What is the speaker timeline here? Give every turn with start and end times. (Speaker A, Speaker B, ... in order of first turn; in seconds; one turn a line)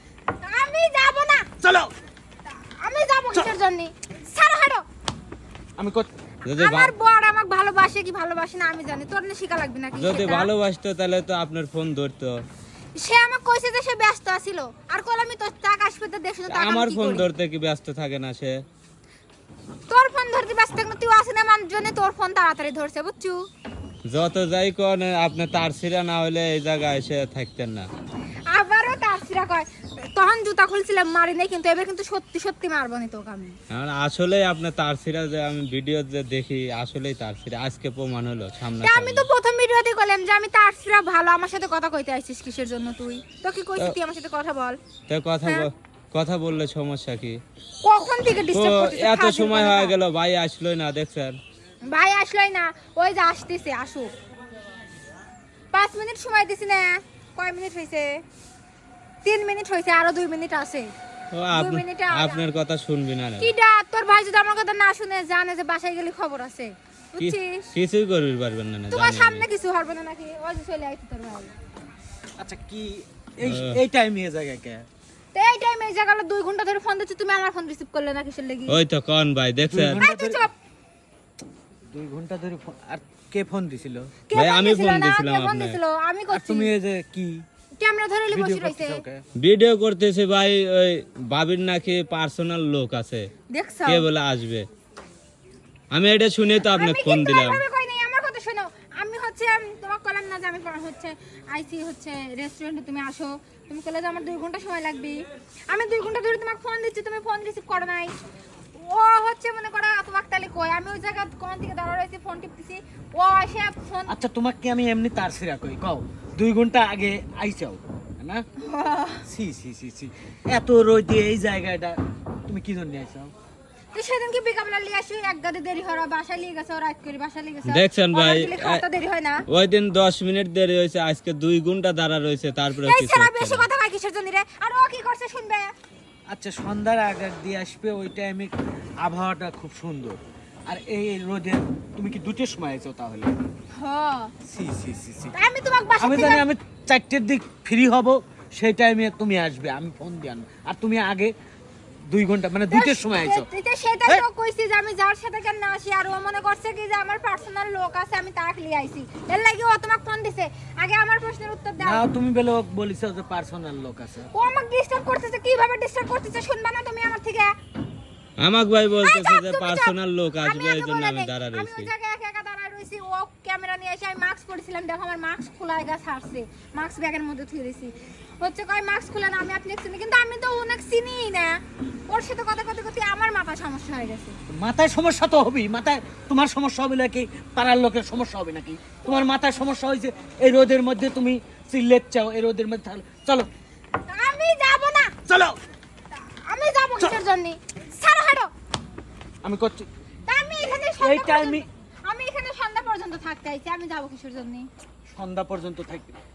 Speaker A: 0.4-1.5
Speaker B: 1.6-1.9
Speaker A: 2.6-4.8
Speaker B: 5.8-6.1
Speaker C: 6.4-6.9
Speaker A: 6.5-10.5
Speaker C: 10.0-12.3
Speaker A: 12.9-17.2
Speaker C: 16.5-18.6
Speaker A: 19.9-23.4
Speaker C: 24.1-27.9
Speaker A: 28.5-33.5
Speaker C: 33.7-39.3
Speaker A: 38.8-44.8
Speaker C: 45.1-47.4
Speaker A: 45.4-45.7
Speaker A: 47.8-50.0
Speaker C: 48.5-51.4
Speaker A: 51.9-54.1
Speaker A: 55.7-58.2
Speaker A: 59.2-60.9
Speaker C: 61.3-63.5
Speaker A: 61.5-62.4
Speaker A: 63.4-67.7
Speaker C: 67.2-69.4
Speaker A: 68.9-71.5
Speaker B: 72.4-74.8
Speaker C: 73.4-73.8
Speaker A: 75.3-78.8
Speaker C: 78.7-80.0
Speaker B: 79.6-80.5
Speaker A: 80.0-80.5
Speaker B: 81.9-84.1
Speaker A: 84.3-86.7
Speaker C: 84.3-85.8
Speaker B: 86.3-87.4
Speaker A: 87.8-89.0
Speaker B: 88.3-89.2
Speaker C: 89.4-93.3
Speaker A: 93.5-94.1
Speaker C: 93.8-94.7
Speaker C: 95.9-97.6
Speaker A: 96.6-105.2
Speaker A: 105.7-108.2
Speaker A: 108.8-114.1
Speaker B: 114.1-118.4
Speaker A: 118.6-119.2
Speaker B: 119.3-123.3
Speaker A: 123.9-129.4
Speaker C: 127.7-128.8
Speaker C: 129.5-133.7
Speaker A: 132.8-135.7
Speaker B: 136.3-143.3
Speaker A: 143.8-144.3
Speaker B: 144.4-145.3
Speaker A: 145.3-146.4
Speaker B: 146.0-151.3
Speaker B: 152.1-153.5
Speaker A: 152.7-162.0
Speaker B: 161.8-164.3
Speaker A: 164.3-167.5
Speaker C: 168.4-171.9
Speaker A: 169.0-184.3
Speaker B: 184.5-193.5
Speaker A: 194.1-195.1
Speaker B: 195.3-195.6
Speaker A: 196.2-198.5
Speaker B: 199.4-199.9
Speaker A: 200.3-204.7
Speaker B: 200.8-201.7
Speaker B: 205.1-206.2